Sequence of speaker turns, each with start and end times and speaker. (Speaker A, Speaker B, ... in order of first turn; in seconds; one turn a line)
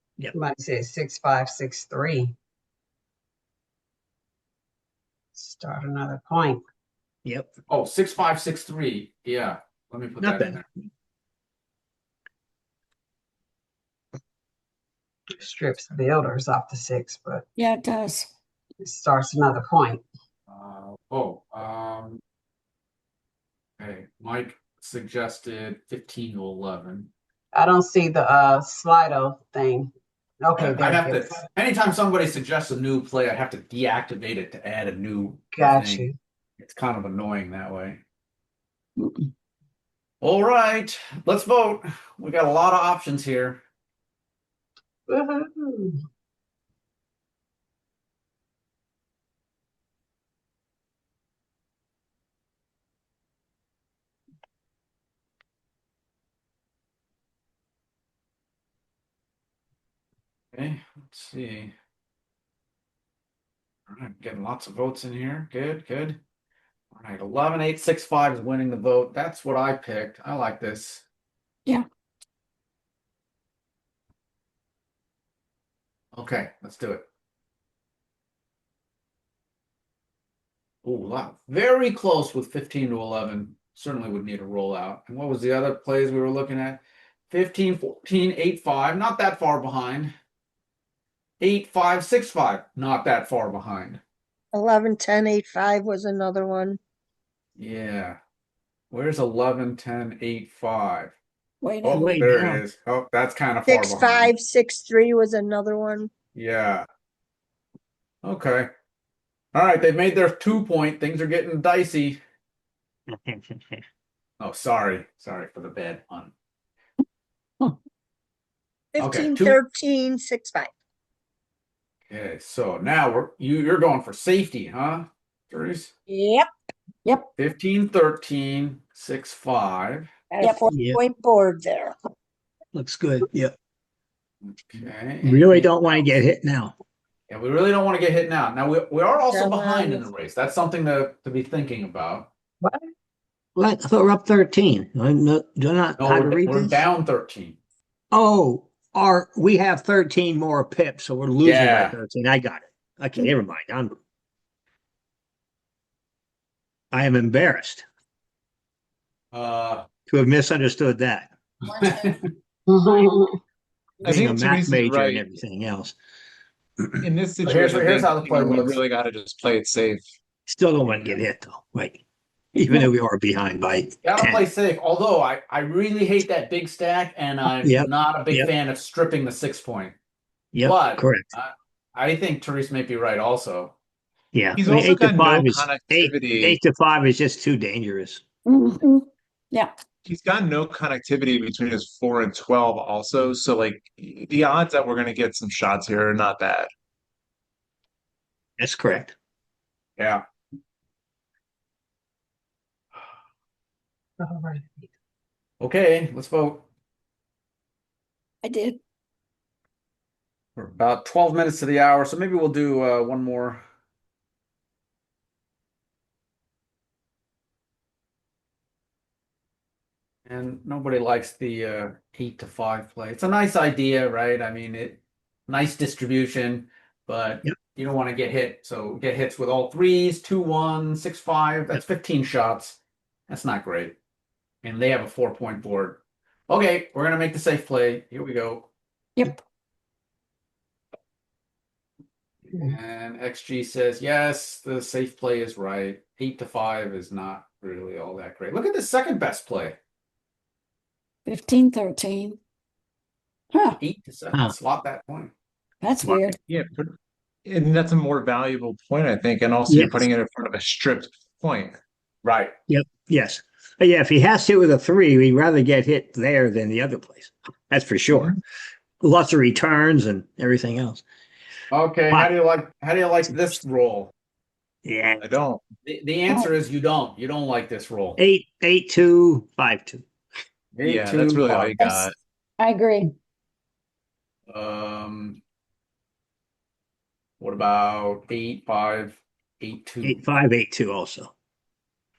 Speaker A: 0.3-2.4
Speaker A: 5.3-6.6
Speaker B: 7.2-7.5
Speaker C: 7.7-10.7
Speaker B: 10.2-10.6
Speaker A: 15.3-17.4
Speaker D: 17.6-18.3
Speaker A: 18.8-20.0
Speaker C: 20.5-22.2
Speaker C: 23.8-27.1
Speaker A: 27.5-31.4
Speaker C: 30.6-38.0
Speaker A: 35.5-36.1
Speaker D: 39.0-39.3
Speaker C: 40.2-43.6
Speaker A: 45.1-46.0
Speaker C: 60.5-61.7
Speaker C: 63.9-66.2
Speaker C: 66.9-71.0
Speaker C: 76.1-77.0
Speaker C: 80.8-90.1
Speaker C: 91.4-94.0
Speaker E: 94.5-96.8
Speaker C: 97.6-98.2
Speaker C: 98.9-101.1
Speaker D: 101.6-102.1
Speaker C: 101.8-104.3
Speaker B: 101.9-102.6
Speaker E: 103.7-106.1
Speaker C: 106.3-106.9
Speaker C: 108.2-108.7
Speaker C: 109.5-112.2
Speaker B: 113.1-113.8
Speaker C: 114.4-116.3
Speaker E: 118.9-120.7
Speaker C: 119.0-119.6
Speaker C: 122.1-125.9
Speaker E: 126.1-126.5
Speaker C: 127.4-130.1
Speaker E: 130.3-131.9
Speaker D: 130.4-130.7
Speaker B: 130.7-131.0
Speaker B: 132.7-133.5
Speaker C: 134.4-135.7
Speaker B: 135.2-136.7
Speaker C: 137.3-142.3
Speaker E: 139.3-139.9
Speaker B: 143.5-146.8
Speaker C: 146.0-147.6
Speaker B: 148.1-154.0
Speaker C: 151.4-151.9
Speaker B: 156.9-157.8
Speaker C: 159.3-159.9
Speaker B: 160.1-161.3
Speaker C: 161.7-162.2
Speaker A: 162.7-163.4
Speaker F: 164.0-165.3
Speaker B: 164.0-165.9
Speaker F: 167.0-170.0
Speaker C: 167.4-168.8
Speaker B: 170.5-172.0
Speaker B: 172.5-174.4
Speaker C: 174.0-179.9
Speaker B: 177.5-178.5
Speaker B: 180.5-181.3
Speaker C: 180.6-183.7
Speaker B: 184.3-188.2
Speaker F: 184.6-186.6
Speaker D: 188.4-189.7
Speaker F: 190.1-196.7
Speaker B: 198.6-199.1
Speaker C: 200.0-200.2
Speaker A: 204.2-204.8
Speaker C: 205.6-206.6
Speaker D: 208.4-208.8
Speaker C: 210.6-213.6
Speaker C: 220.3-232.8
Speaker C: 233.3-233.9
Speaker C: 234.6-238.7
Speaker C: 242.5-249.8
Speaker D: 251.2-252.4
Speaker D: 253.5-253.8
Speaker C: 253.8-255.3
Speaker D: 255.8-256.4
Speaker F: 256.5-256.9
Speaker F: 257.4-261.8
Speaker B: 259.7-260.1
Speaker C: 262.2-262.5
Speaker B: 262.7-268.4
Speaker B: 269.0-271.0
Speaker C: 271.7-274.1
Speaker B: 274.8-275.3
Speaker F: 275.2-275.6
Speaker C: 275.8-278.2
Speaker B: 278.2-280.0
Speaker C: 280.7-281.9
Speaker F: 280.8-282.1
Speaker D: 282.6-283.1
Speaker C: 284.5-285.4
Speaker C: 287.4-290.2
Speaker B: 290.0-291.3